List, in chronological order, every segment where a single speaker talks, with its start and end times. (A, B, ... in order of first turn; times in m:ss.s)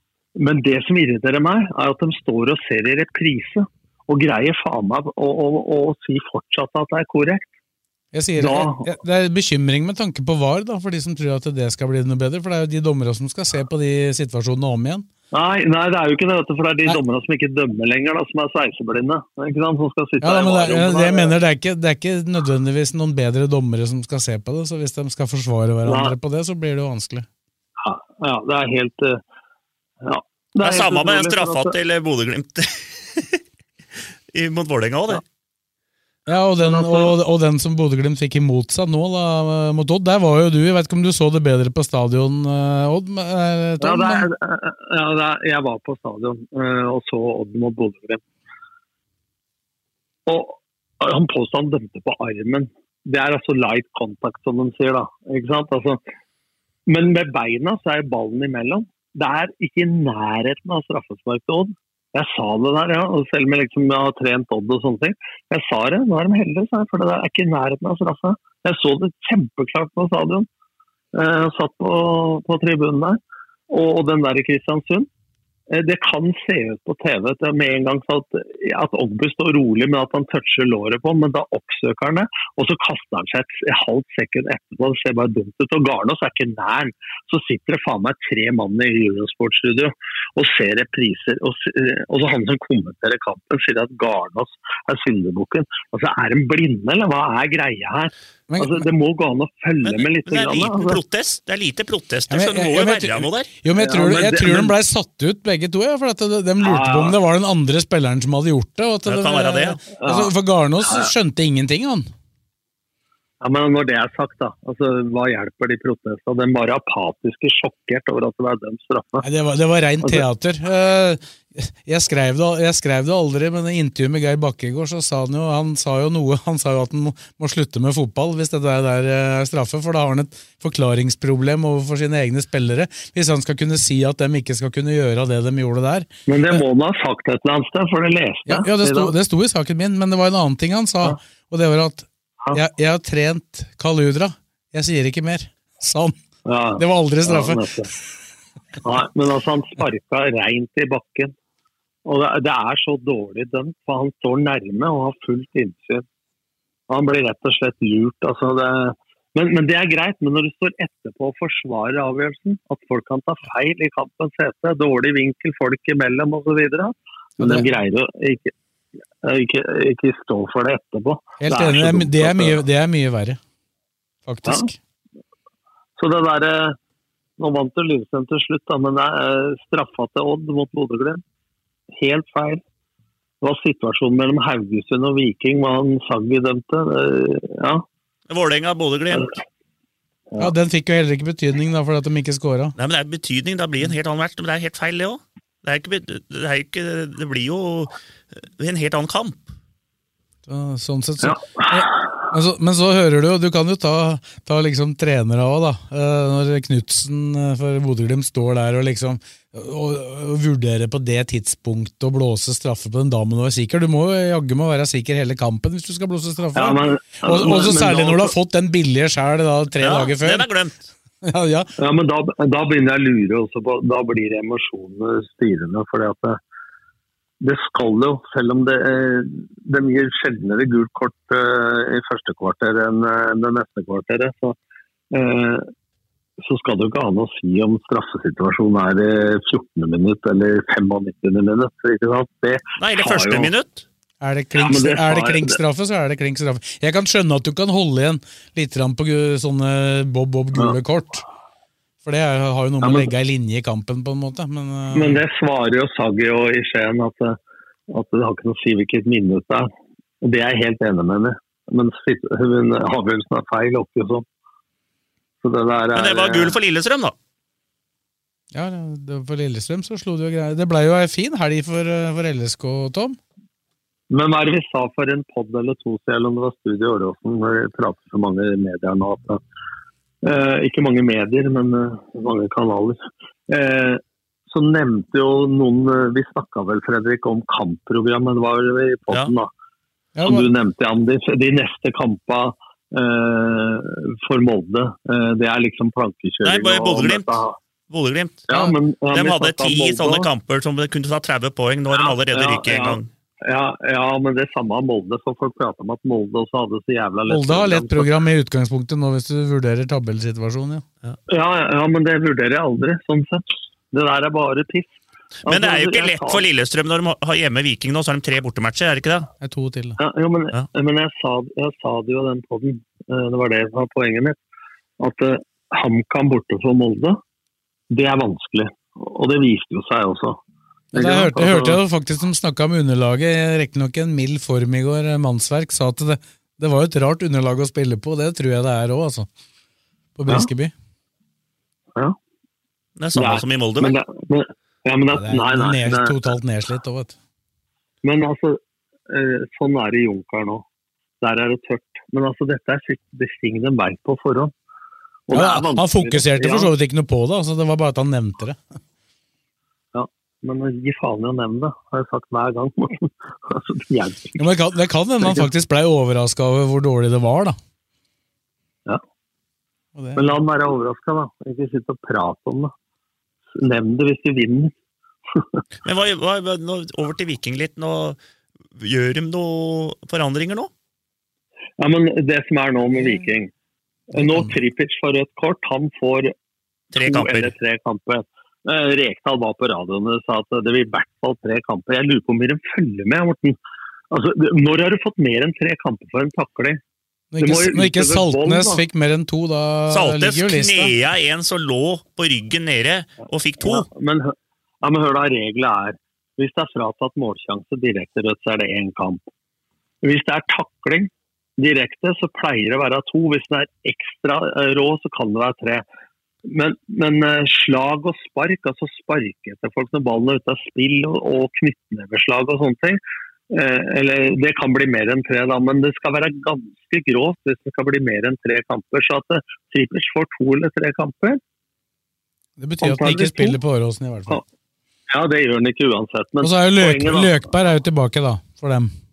0:00.4-0:07.5 A
0:08.1-0:15.1 B
0:08.4-0:08.9 A
0:15.3-0:21.3 A
0:20.2-0:27.3 B
0:25.8-0:26.1 A
0:27.8-0:29.2 A
0:30.0-0:31.7 A
0:30.6-0:33.4 C
0:34.3-0:35.2 C
0:36.3-0:44.3 B
0:36.6-0:37.1 A
0:43.8-0:48.2 A
0:50.2-0:56.0 A
0:56.9-1:10.5 A
1:11.1-1:13.2 A
1:13.7-1:15.1 A
1:15.7-1:41.0 A
1:38.5-1:38.9 B
1:39.8-1:43.5 C
1:42.3-1:52.1 B
1:43.7-1:44.7 A
1:46.6-1:47.2 A
1:49.0-1:49.8 C
1:50.0-1:50.3 A
1:53.4-1:59.2 A
1:59.2-2:16.6 B
2:16.3-2:19.1 A
2:18.5-2:26.1 B
2:26.4-2:27.9 A
2:26.8-2:27.7 B
2:28.8-2:31.3 A
2:32.0-2:36.0 A
2:36.9-2:48.5 A
2:47.4-2:47.7 B
2:49.2-2:52.6 A
2:51.4-2:53.4 B
2:54.2-2:54.8 B
2:54.4-2:54.7 A
2:56.0-2:56.8 A
2:57.4-3:01.2 A
3:01.9-3:02.6 A
3:03.4-3:07.8 A
3:08.3-3:09.3 C
3:10.4-3:12.7 B
3:12.8-3:17.9 C
3:18.6-3:19.4 C
3:20.5-3:40.5 B
3:21.2-3:22.1 A
3:36.5-3:38.3 A
3:39.8-3:40.8 C
3:41.2-3:41.7 B
3:41.8-3:46.4 A
3:47.4-3:54.6 A
3:55.1-3:55.7 A
3:56.4-4:03.5 A
4:02.8-4:03.8 C
4:04.2-4:11.2 B
4:04.6-4:05.6 A
4:12.0-4:15.2 B
4:12.8-4:13.1 A
4:14.9-4:17.4 A
4:17.9-4:19.7 A
4:20.2-4:24.2 A
4:25.4-4:26.5 A
4:25.9-4:27.1 C
4:28.5-4:33.2 B
4:34.1-4:39.4 A
4:40.2-4:49.5 A
4:50.1-4:50.5 B
4:50.2-4:57.6 A
4:56.4-4:58.5 C
4:58.5-5:00.3 A
4:59.1-5:03.1 C
5:01.9-5:08.1 A
5:07.3-5:10.8 B
5:11.3-5:14.9 A
5:15.4-5:16.4 A
5:15.4-5:19.3 C
5:19.4-5:20.0 B
5:20.0-5:24.4 A
5:25.0-5:27.2 A
5:27.9-5:30.4 A
5:30.9-5:39.3 B
5:30.9-5:31.8 A
5:40.2-5:40.7 B
5:43.0-5:44.0 C
5:43.1-5:46.1 A
5:45.1-5:47.2 B
5:48.0-5:50.6 A
5:51.2-5:54.5 A
5:55.3-5:56.7 A
5:55.3-5:58.6 B
5:59.9-6:04.4 A
6:04.4-6:07.6 B
6:05.2-6:05.5 A
6:10.0-6:10.3 B
6:10.2-6:12.7 A
6:13.5-6:14.7 A
6:15.3-6:15.6 A
6:15.8-6:18.2 C
6:18.8-6:20.7 C
6:21.8-6:23.5 A
6:22.9-6:23.3 B
6:24.1-6:26.3 A
6:24.2-6:24.5 B
6:26.9-6:27.5 C
6:27.0-6:33.6 A
6:34.1-6:36.8 A
6:37.3-6:40.9 B
6:37.4-6:38.8 A
6:39.9-6:43.8 C
6:43.6-6:49.2 A
6:50.0-6:55.8 A
6:56.4-7:11.4 A
7:12.6-7:14.4 B
7:12.8-7:13.6 A
7:15.1-7:17.4 A
7:16.4-7:18.9 B